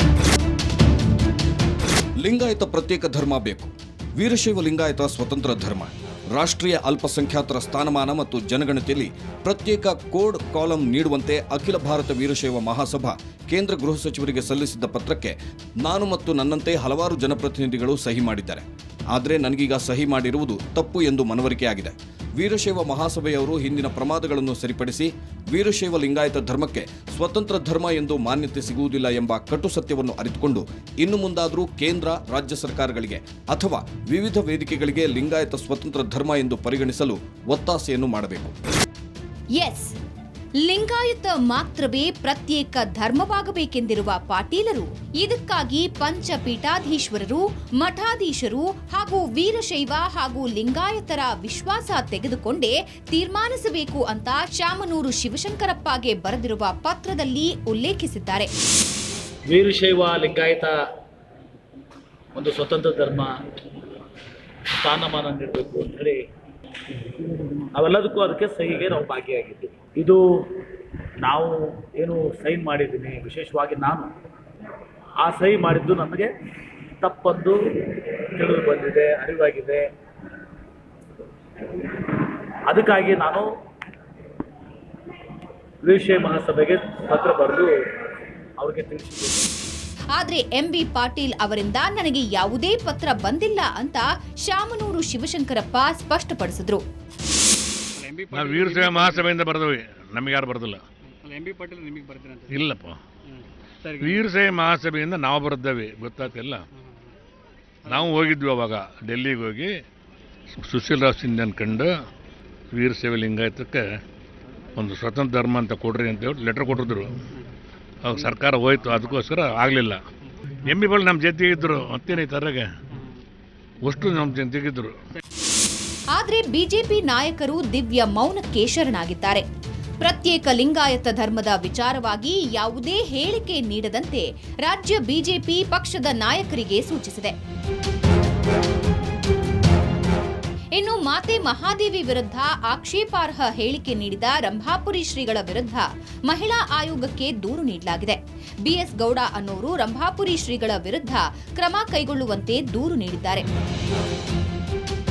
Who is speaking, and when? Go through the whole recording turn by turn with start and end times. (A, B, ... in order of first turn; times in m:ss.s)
0:02.2-0:38.5 A
0:39.6-0:40.0 B
0:40.6-0:58.5 B
0:59.5-1:00.8 C
1:02.3-1:03.3 C
1:04.8-1:06.2 C
1:07.0-1:10.7 C
1:11.2-1:14.1 C
1:15.2-1:16.3 C
1:17.0-1:19.9 C
1:21.8-1:23.5 C
1:25.8-1:27.7 C
1:28.6-1:29.5 C
1:30.1-1:36.8 B
1:38.0-1:39.2 D
1:38.3-1:40.8 E
1:41.2-1:42.5 D
1:42.5-1:43.0 E
1:43.3-1:44.2 D
1:44.0-1:46.6 E
1:47.9-1:49.7 E
1:50.6-1:51.9 E
1:52.7-1:53.8 E
1:54.8-1:57.2 E
1:58.0-2:00.0 E
2:00.7-2:02.7 E
2:03.8-2:05.0 E
2:06.1-2:09.4 B
2:10.0-2:17.3 B
2:20.7-2:33.4 B